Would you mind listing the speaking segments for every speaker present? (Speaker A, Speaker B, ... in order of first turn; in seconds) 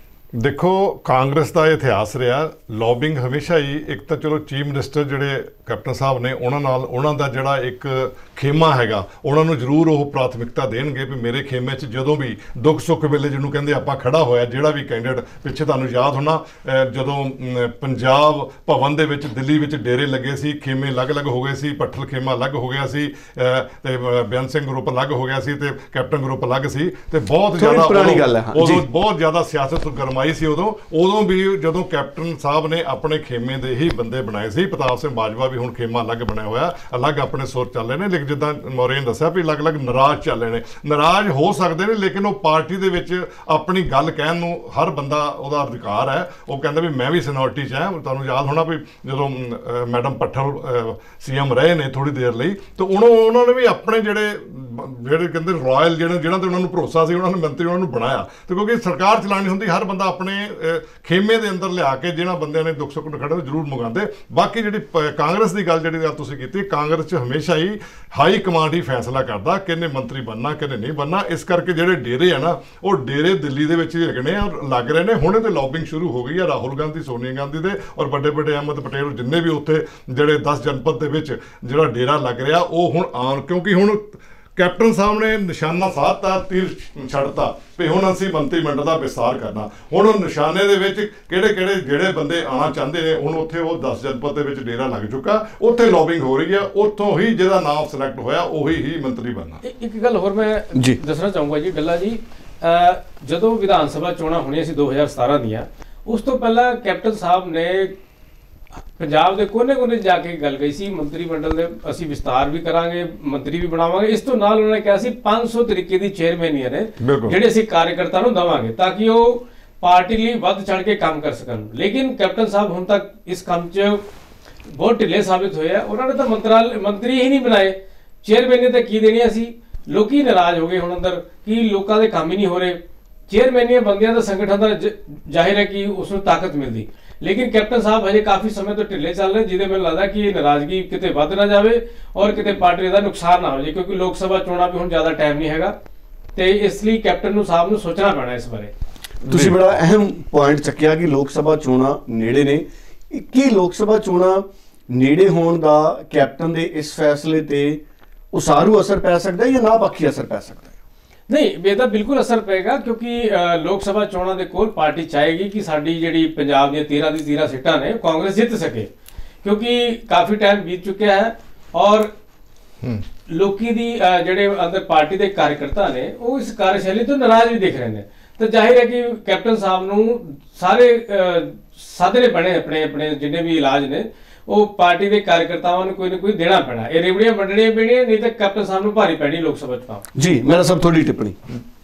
Speaker A: 0.3-99.6, 117.0-117.4, 149.3-149.6
Speaker B: 27.6-28.9, 100.8-101.0, 149.3-160.7, 190.2-191.4
Speaker C: 99.6-108.0, 109.0-124.0, 124.7-145.7, 146.4-148.7, 161.3-168.9, 169.4-172.1, 173.3-190.1